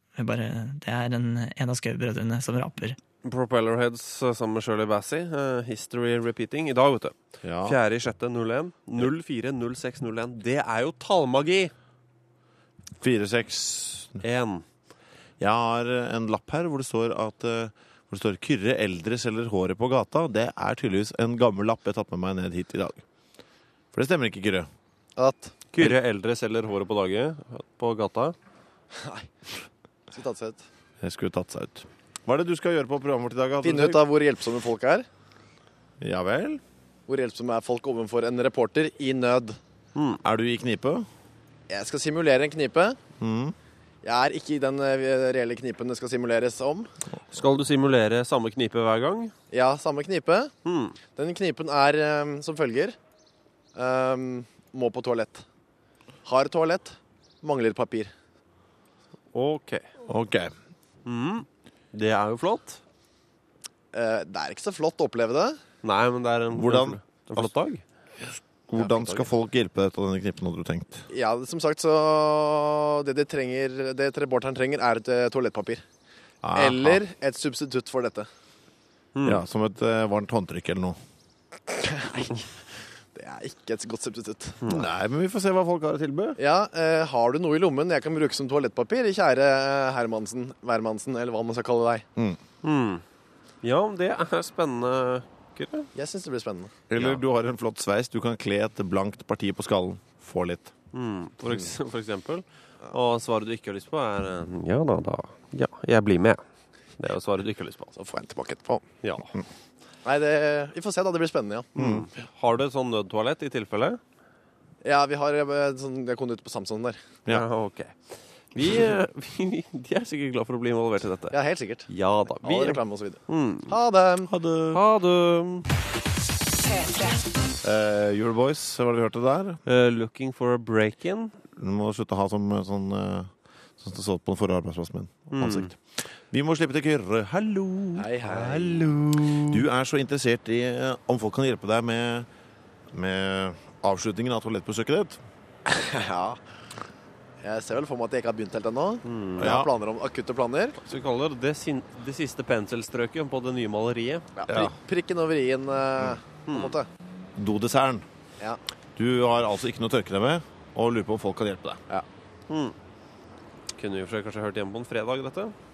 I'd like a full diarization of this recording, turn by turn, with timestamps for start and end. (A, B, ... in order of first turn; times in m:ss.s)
0:00.2-0:03.0 A
0:03.2-0:11.7 B
0:07.4-0:07.8 C
0:13.0-0:14.2 C
0:14.2-0:14.6 B
0:15.4-0:23.0 C
0:23.9-0:24.7 C
0:25.2-0:25.5 D
0:25.7-0:28.3 B
0:28.9-0:29.3 D
0:30.1-0:30.6 D
0:31.0-0:34.0 C
0:33.6-0:35.0 D
0:36.0-0:36.6 C
0:37.1-0:39.6 D
0:39.9-0:40.2 B
0:40.2-0:41.1 C
0:41.7-0:43.0 D
0:43.2-0:43.5 C
0:44.0-0:46.9 D
0:47.3-0:49.3 B
0:49.5-0:50.5 D
0:50.6-0:51.0 B
0:51.1-0:53.0 D
0:53.7-0:55.4 D
0:56.2-0:58.1 D
0:59.3-0:59.9 B
1:00.0-1:00.5 C
1:01.0-1:02.8 B
1:03.9-1:05.6 D
1:05.8-1:07.8 B
1:06.5-1:07.5 C
1:08.7-1:11.1 C
1:08.7-1:09.3 D
1:11.1-1:15.8 D
1:16.4-1:17.0 C
1:16.5-1:18.3 D
1:19.1-1:19.4 B
1:19.2-1:21.0 C
1:21.7-1:22.4 D
1:23.1-1:24.6 D
1:24.7-1:26.4 C
1:26.4-1:32.0 D
1:32.6-1:33.0 B
1:33.6-1:35.9 B
1:35.9-1:36.7 D
1:36.9-1:40.7 C
1:37.0-1:37.2 B
1:40.9-1:46.4 B
1:47.0-1:47.9 B
1:48.0-1:48.8 D
1:49.0-1:49.3 B
1:50.0-1:51.7 D
1:51.8-1:54.0 B
1:51.8-1:52.1 C
1:54.8-1:57.0 D
1:57.3-2:01.3 B
2:01.3-2:01.9 D
2:01.9-2:03.7 B
2:02.4-2:04.3 D
2:04.3-2:04.8 C
2:04.7-2:05.6 B
2:07.6-2:09.6 C
2:09.6-2:11.3 B
2:11.6-2:18.7 C
2:15.3-2:15.7 B
2:18.0-2:18.9 D
2:18.2-2:19.6 B
2:19.4-2:22.3 C
2:22.9-2:25.2 C
2:25.7-2:26.4 D
2:27.4-2:30.8 D
2:29.0-2:29.5 B
2:29.4-2:29.7 C
2:30.8-2:34.3 B
2:34.4-2:36.9 D
2:34.5-2:34.8 C
2:36.5-2:36.8 B
2:37.4-2:38.0 C
2:39.0-2:41.8 C
2:42.5-2:42.8 B
2:43.7-2:45.5 B